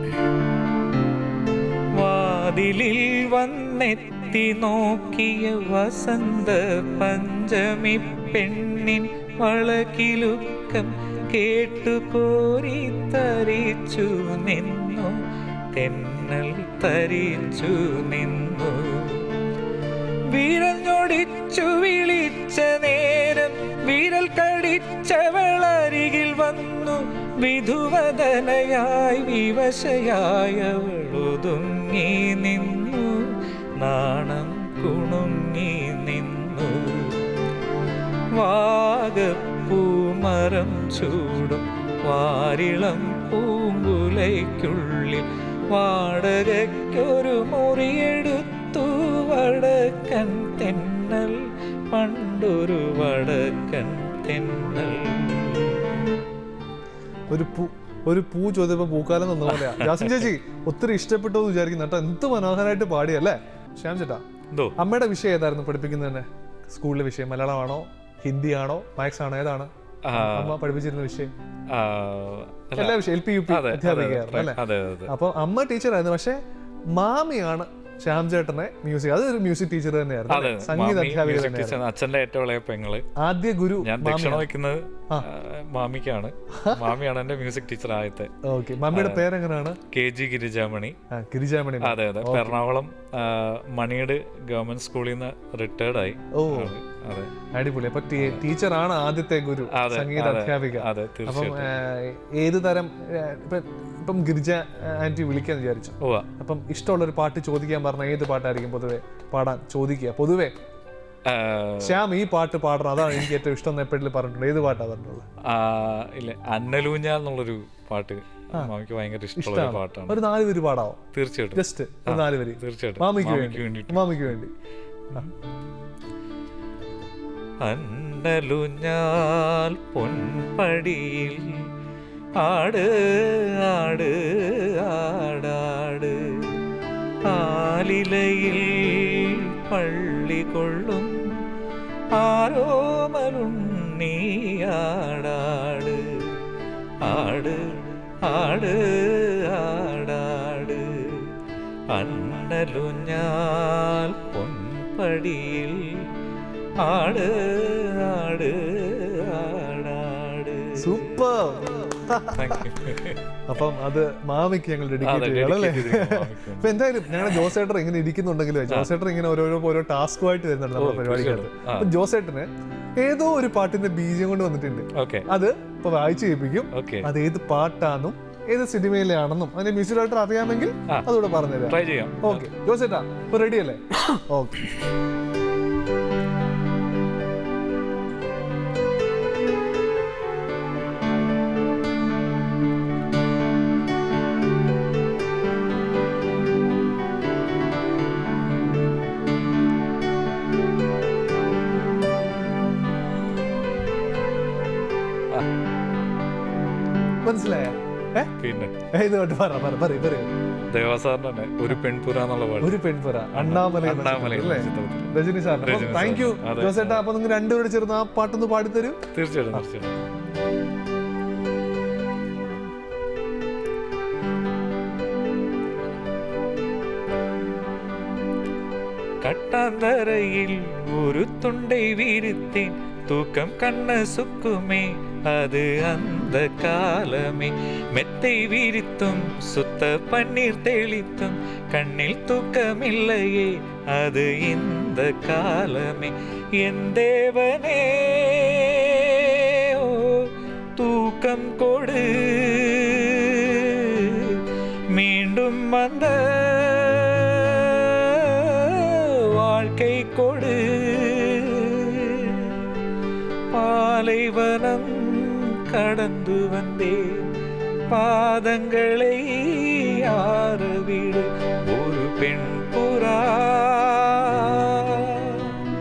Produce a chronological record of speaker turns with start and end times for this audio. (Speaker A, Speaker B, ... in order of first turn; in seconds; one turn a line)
Speaker A: 1.9-15.2
Speaker A: 15.7-19.3
Speaker A: 20.3-37.2
Speaker A: 38.4-55.9
Speaker B: 57.3-64.2
Speaker A: 59.5-60.3
Speaker B: 64.8-71.3
Speaker A: 70.0-70.6
Speaker A: 71.7-75.1
Speaker B: 72.8-76.4
Speaker B: 76.9-81.8
Speaker A: 80.3-83.0
Speaker B: 83.2-84.5
Speaker A: 83.8-88.3
Speaker B: 86.5-86.9
Speaker B: 88.4-89.8
Speaker A: 88.9-89.2
Speaker A: 89.9-91.0
Speaker B: 91.1-92.6
Speaker A: 91.8-97.3
Speaker B: 96.3-96.7
Speaker B: 97.5-110.5
Speaker A: 99.7-101.7
Speaker A: 106.0-106.3
Speaker A: 111.3-112.0
Speaker B: 111.8-115.2
Speaker A: 115.5-120.2
Speaker B: 119.4-121.0
Speaker A: 121.1-124.3
Speaker B: 121.5-124.5
Speaker A: 127.6-131.7
Speaker A: 132.4-136.6
Speaker A: 137.2-141.2
Speaker A: 142.1-146.4
Speaker A: 147.0-151.3
Speaker A: 151.9-156.1
Speaker A: 156.8-161.1
Speaker B: 160.8-162.6
Speaker A: 162.3-163.2
Speaker B: 163.5-184.7
Speaker A: 165.0-166.7
Speaker A: 170.8-171.9
Speaker A: 174.9-175.3
Speaker A: 176.7-177.1
Speaker A: 181.7-182.4
Speaker B: 207.2-208.3
Speaker A: 208.4-208.7
Speaker B: 208.9-210.3
Speaker A: 210.7-212.8
Speaker B: 212.6-219.0
Speaker A: 213.3-217.0
Speaker A: 219.1-220.0
Speaker A: 229.2-254.4
Speaker A: 254.9-262.6
Speaker A: 263.5-267.3
Speaker A: 267.9-275.5